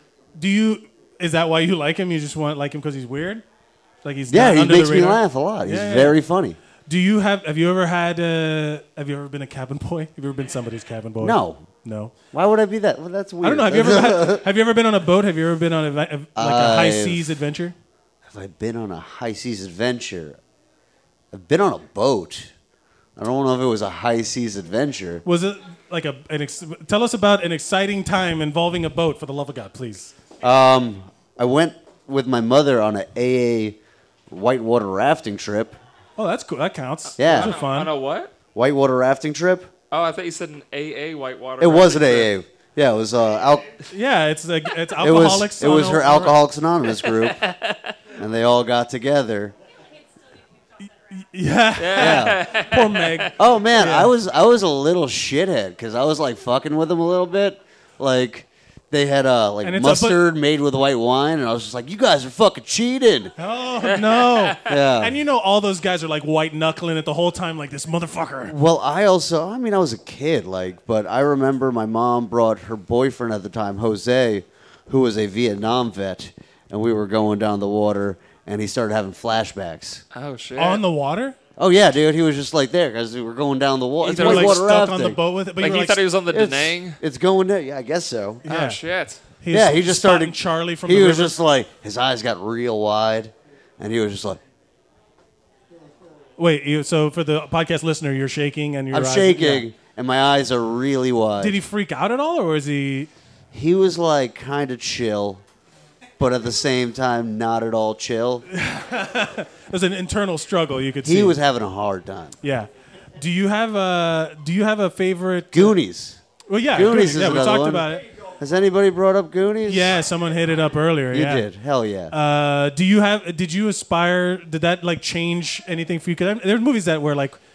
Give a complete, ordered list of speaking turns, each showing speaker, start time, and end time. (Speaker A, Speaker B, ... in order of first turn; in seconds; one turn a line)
Speaker A: 0.4-3.4
Speaker A: 4.0-6.2
Speaker B: 4.3-6.6
Speaker A: 6.9-12.1
Speaker B: 11.2-11.7
Speaker B: 12.3-14.4
Speaker A: 13.4-17.7
Speaker B: 16.4-17.3
Speaker B: 18.3-20.4
Speaker B: 21.3-22.5
Speaker B: 23.1-25.2
Speaker A: 25.2-30.1
Speaker B: 30.4-33.8
Speaker B: 34.3-35.8
Speaker A: 36.2-37.9
Speaker C: 37.2-38.3
Speaker B: 37.2-37.5
Speaker B: 38.5-39.7
Speaker C: 39.9-42.3
Speaker B: 41.6-43.7
Speaker A: 43.9-46.4
Speaker B: 45.0-47.4
Speaker C: 47.0-47.8
Speaker B: 48.1-49.5
Speaker A: 51.2-54.1
Speaker C: 51.8-53.3
Speaker B: 52.0-52.4
Speaker B: 53.4-63.3
Speaker A: 59.6-60.2
Speaker A: 63.4-68.5
Speaker C: 63.8-64.7
Speaker B: 64.7-65.1
Speaker B: 68.5-80.0
Speaker C: 80.1-80.8
Speaker A: 80.6-81.4
Speaker B: 81.6-85.2
Speaker C: 84.0-84.7
Speaker A: 84.0-86.0
Speaker C: 85.6-87.0
Speaker B: 86.3-88.4
Speaker A: 88.5-88.8
Speaker C: 88.5-89.2
Speaker A: 89.4-91.4
Speaker B: 89.5-94.4
Speaker A: 96.4-99.7
Speaker B: 98.9-101.6
Speaker A: 101.4-103.1
Speaker B: 103.5-105.4
Speaker B: 106.2-108.5
Speaker A: 108.5-111.4
Speaker B: 111.0-112.3
Speaker A: 112.4-115.8
Speaker B: 115.5-116.2
Speaker A: 116.5-118.0
Speaker B: 116.7-119.9
Speaker A: 119.6-121.5
Speaker B: 121.1-122.1
Speaker A: 122.1-127.4